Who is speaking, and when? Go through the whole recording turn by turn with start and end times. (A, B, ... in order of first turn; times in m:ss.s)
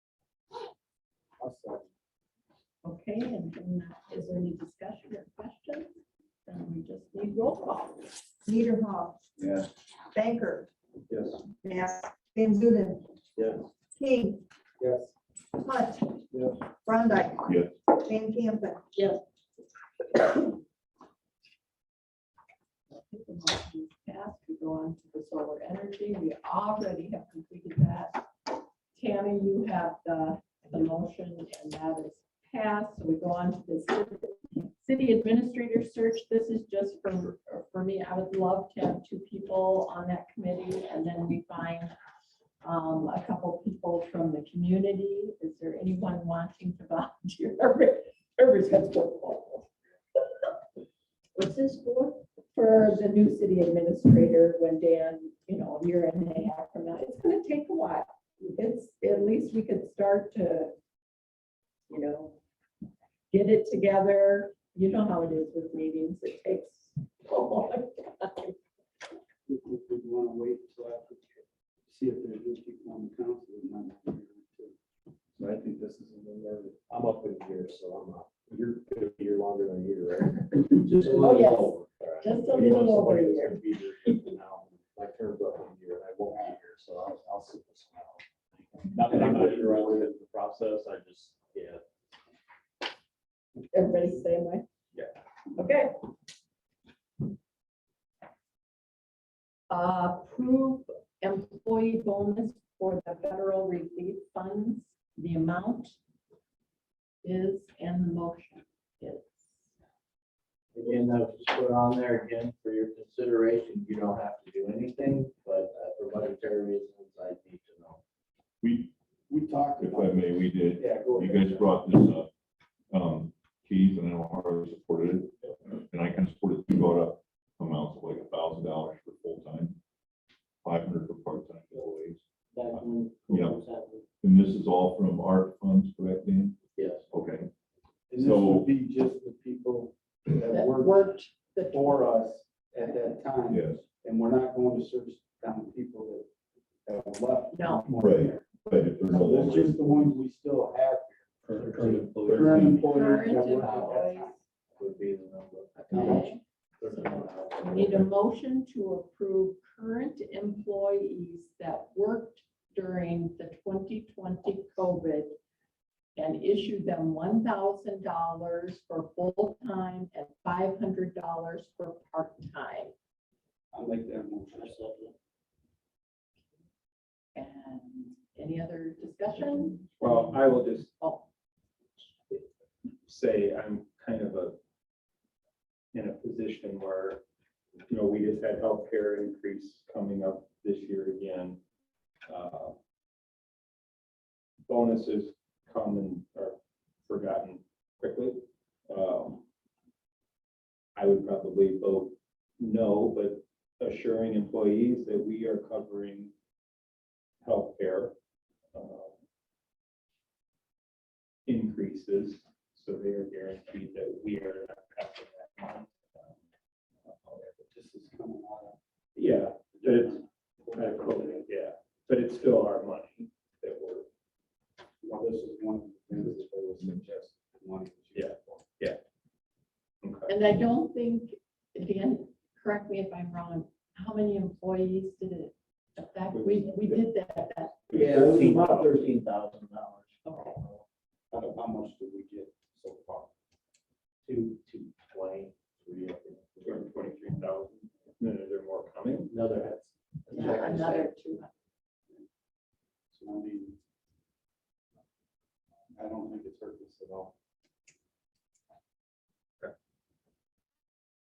0:02.8-0:05.9 A
0:06.5-0:08.2 A
0:08.4-0:09.2 B
0:10.1-0:10.7 B
0:11.1-0:11.4 C
0:11.6-0:13.0 B
0:14.0-0:14.4 B
0:15.5-0:16.2 B
0:16.8-0:18.8 B
0:22.9-0:28.2 A
0:28.9-0:41.9 A
0:42.6-0:49.7 A
0:51.3-1:00.7 A
1:01.9-1:02.4 A
1:03.3-1:08.6 A
1:09.5-1:14.8 D
1:15.4-1:31.8 E
1:20.6-1:21.7 F
1:21.1-1:23.6 A
1:29.2-1:29.5 D
1:33.7-1:34.6 A
1:35.6-1:36.0 A
1:39.7-1:46.0 A
1:47.2-1:49.5 A
1:50.7-1:58.0 F
1:58.6-1:58.9 G
1:59.3-2:01.7 D
1:59.8-2:02.3 G
2:02.9-2:09.8 G
2:10.6-2:12.2 G
2:12.5-2:14.0 F
2:12.7-2:13.6 G
2:14.2-2:16.6 G
2:16.8-2:17.0 F
2:17.1-2:17.5 G
2:18.1-2:26.3 D
2:18.2-2:18.7 G
2:20.5-2:22.1 A
2:23.5-2:23.8 G
2:26.8-2:28.4 D
2:27.5-2:27.9 A
2:28.0-2:30.0 G
2:29.1-2:31.4 D
2:31.5-2:33.9 F
2:32.3-2:34.3 D
2:32.7-2:34.4 A
2:34.8-2:36.2 F
2:35.8-2:45.4 A
2:35.9-2:36.3 D
2:36.8-2:38.0 F
2:46.2-2:52.9 A
2:53.7-2:55.1 D
2:57.3-3:01.3 A
3:00.0-3:00.9 C
3:03.1-3:04.6 C
3:05.9-3:07.2 C
3:07.9-3:11.6 C
3:12.3-3:12.8 C
3:14.7-3:19.4 C
3:21.0-3:26.3 C
3:27.4-3:28.1 C
3:28.7-3:29.1 C
3:31.5-3:36.3 C
3:37.0-3:37.6 C
3:37.7-3:38.8 D
3:39.2-3:44.1 C
3:39.8-3:41.4 D
3:45.0-3:48.6 D
3:46.2-3:47.0 G
3:48.1-3:49.0 C
3:50.0-3:50.3 C
3:50.3-3:57.8 A
3:56.3-3:57.0 C
3:57.9-3:59.2 C
3:57.9-4:00.8 F
4:00.2-4:00.6 A
4:01.3-4:03.3 D
4:04.2-4:06.9 F
4:06.6-4:09.3 C
4:09.3-4:11.1 F
4:10.3-4:11.5 A
4:13.1-4:13.8 D
4:15.9-4:17.3 D